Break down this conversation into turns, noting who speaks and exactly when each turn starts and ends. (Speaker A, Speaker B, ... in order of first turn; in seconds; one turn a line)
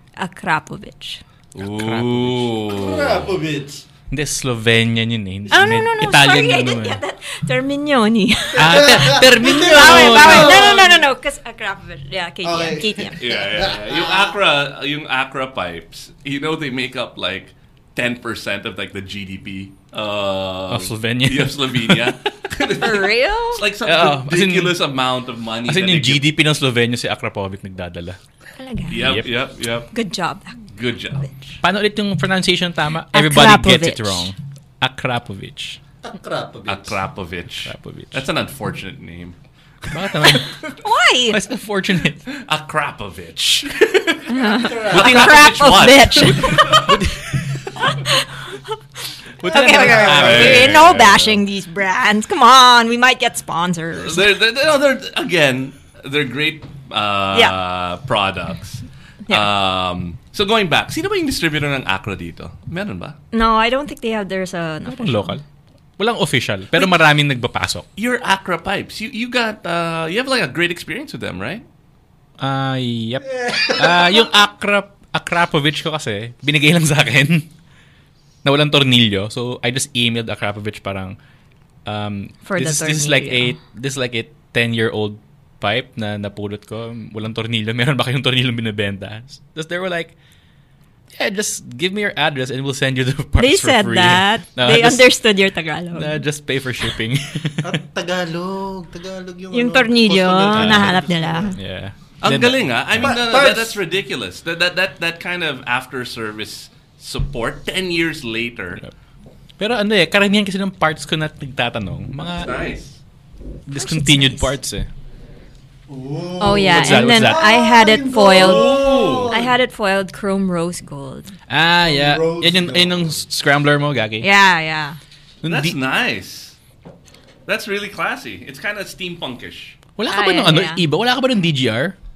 Speaker A: 0.2-1.2
Speaker B: 1.6-3.3
Speaker C: 1.6-2.5
Speaker D: 2.7-3.8
Speaker C: 4.1-7.0
Speaker A: 5.5-13.2
Speaker D: 8.6-11.0
Speaker C: 8.6-10.8
Speaker D: 12.4-14.3
Speaker B: 13.2-26.3
Speaker C: 20.7-22.2
Speaker A: 22.7-23.7
Speaker C: 23.8-24.8
Speaker C: 25.7-28.2
Speaker A: 28.6-29.3
Speaker B: 28.9-29.9
Speaker C: 29.0-29.3
Speaker A: 29.9-30.6
Speaker B: 30.8-31.3
Speaker C: 31.6-35.8
Speaker A: 33.1-34.3
Speaker D: 36.0-37.0
Speaker B: 36.7-40.8
Speaker C: 37.6-38.2
Speaker C: 39.9-40.6
Speaker A: 40.7-41.4
Speaker C: 41.3-42.2
Speaker B: 42.3-47.0
Speaker A: 44.3-46.9
Speaker D: 44.4-45.4
Speaker C: 46.6-47.7
Speaker A: 47.8-48.8
Speaker A: 49.4-54.3
Speaker B: 49.4-51.4
Speaker D: 49.5-50.8
Speaker B: 54.0-63.2
Speaker A: 63.3-65.4
Speaker C: 64.8-65.4
Speaker C: 66.0-67.9
Speaker B: 68.0-71.7
Speaker C: 72.4-77.5
Speaker D: 73.3-74.3
Speaker C: 78.4-81.2
Speaker C: 81.8-90.2
Speaker A: 82.4-83.6
Speaker C: 91.1-95.2
Speaker A: 93.4-96.2
Speaker C: 95.9-97.8
Speaker D: 97.6-101.5
Speaker A: 99.5-101.6
Speaker C: 100.6-100.9
Speaker C: 101.6-103.1
Speaker B: 102.2-108.8
Speaker D: 103.0-103.8
Speaker C: 109.6-112.5
Speaker B: 112.2-113.0
Speaker C: 113.7-114.9
Speaker A: 113.7-114.6
Speaker D: 115.9-119.5
Speaker A: 116.4-121.3
Speaker C: 116.7-117.6
Speaker B: 118.3-119.3
Speaker C: 121.5-124.3
Speaker D: 121.8-123.2
Speaker A: 124.2-125.0
Speaker C: 125.4-125.8
Speaker B: 125.5-126.6
Speaker B: 127.5-129.8
Speaker C: 130.0-132.0
Speaker A: 130.1-130.8